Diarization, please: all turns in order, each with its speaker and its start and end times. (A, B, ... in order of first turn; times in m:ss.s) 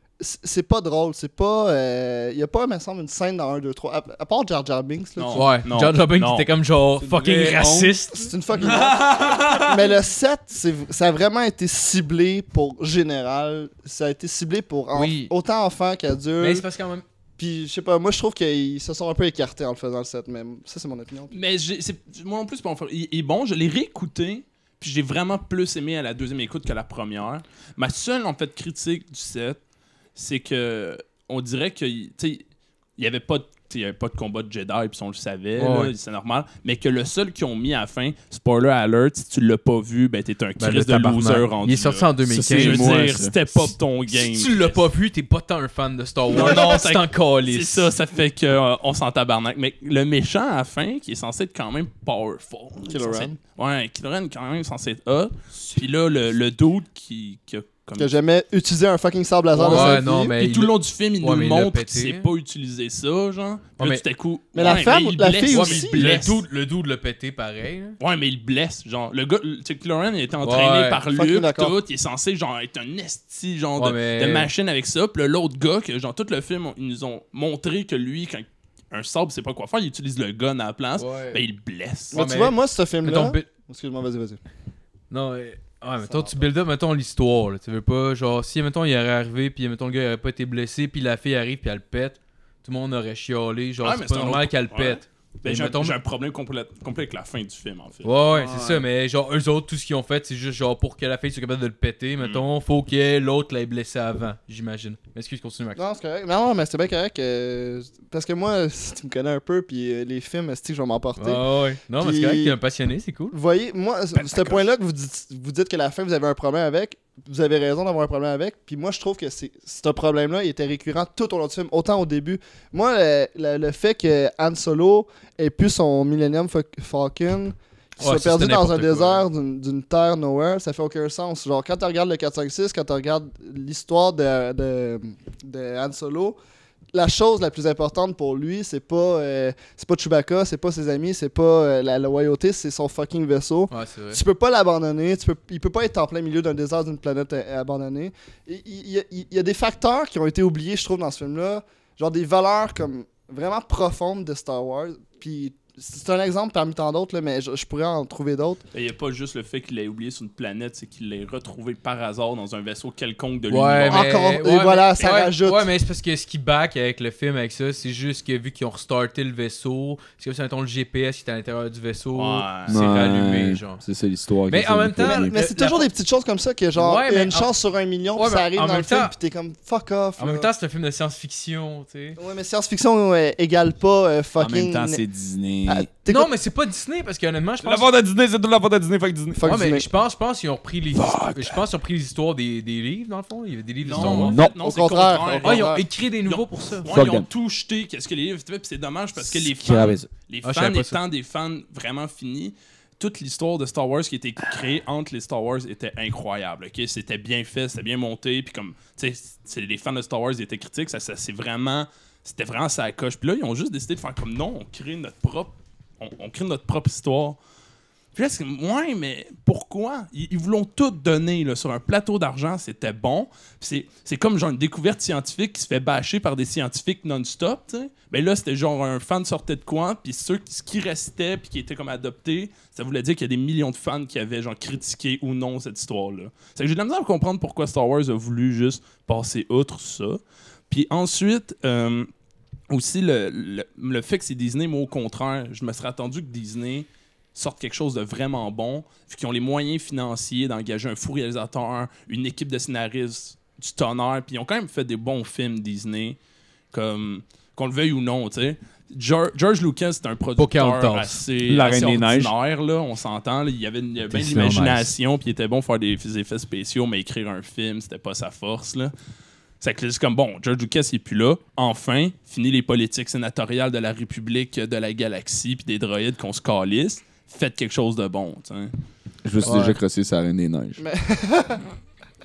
0:00.2-0:05.5 A
0:05.2-0:06.5 B
0:05.4-0:08.3 C
0:07.0-0:08.0 D
0:08.1-0:16.7 A
0:08.6-0:09.9 D
0:14.9-0:15.3 C
0:16.4-0:17.0 C
0:17.4-0:21.4 A
0:21.3-0:29.6 B
0:30.2-0:32.4 B
0:33.0-0:44.8 B
0:35.6-0:35.9 C
0:40.6-0:42.8 C
0:42.3-0:43.6 D
0:44.1-0:47.9 C
0:46.3-0:58.1 B
0:52.8-0:53.4 A
0:58.0-1:00.3 A
0:59.5-1:02.3 C
0:59.6-1:06.4 B
1:03.8-1:04.0 C
1:04.6-1:06.1 A
1:04.6-1:04.9 C
1:05.5-1:08.0 C
1:08.0-1:22.2 B
1:10.4-1:11.0 C
1:11.1-1:11.8 A
1:13.8-1:14.5 C
1:21.0-1:21.4 C
1:22.1-1:24.4 A
1:22.1-1:23.5 C
1:25.1-1:36.0 C
1:26.0-1:26.5 A
1:33.8-1:38.1 B
1:38.0-1:45.8 C
1:38.3-1:38.9 D
1:45.8-1:51.4 A
1:51.2-1:53.4 C
1:52.0-1:52.6 A
1:53.3-2:16.4 A
1:54.1-1:54.7 B
2:08.0-2:09.2 C
2:16.9-2:38.6 A
2:23.7-2:24.2 C
2:38.7-2:44.1 B
2:43.5-2:53.8 C
2:43.9-2:45.7 A
2:52.2-2:52.7 B
2:52.7-2:55.4 D
2:54.5-2:55.9 C
2:55.0-3:00.5 A
2:56.8-2:57.5 C
2:58.2-2:59.1 C
3:00.2-3:02.2 C
3:02.2-3:05.0 A
3:04.4-3:05.9 D
3:05.7-3:06.3 A
3:06.1-3:07.9 C
3:07.6-3:09.4 D
3:09.4-3:09.9 A
3:09.5-3:14.4 C
3:10.9-3:11.6 D
3:13.8-3:37.4 B
3:13.9-3:14.6 D
3:14.6-3:15.8 A
3:15.4-3:16.9 C
3:16.9-3:17.3 D
3:19.2-3:20.1 D
3:20.4-3:21.0 C
3:38.2-4:02.1 B
4:02.7-4:16.2 B
4:16.7-4:28.9 B
4:20.4-4:21.2 C
4:21.4-4:22.3 D
4:24.1-4:24.9 C
4:29.6-4:38.7 B
4:39.2-4:40.8 D
4:39.4-4:39.8 C
4:40.8-4:41.6 A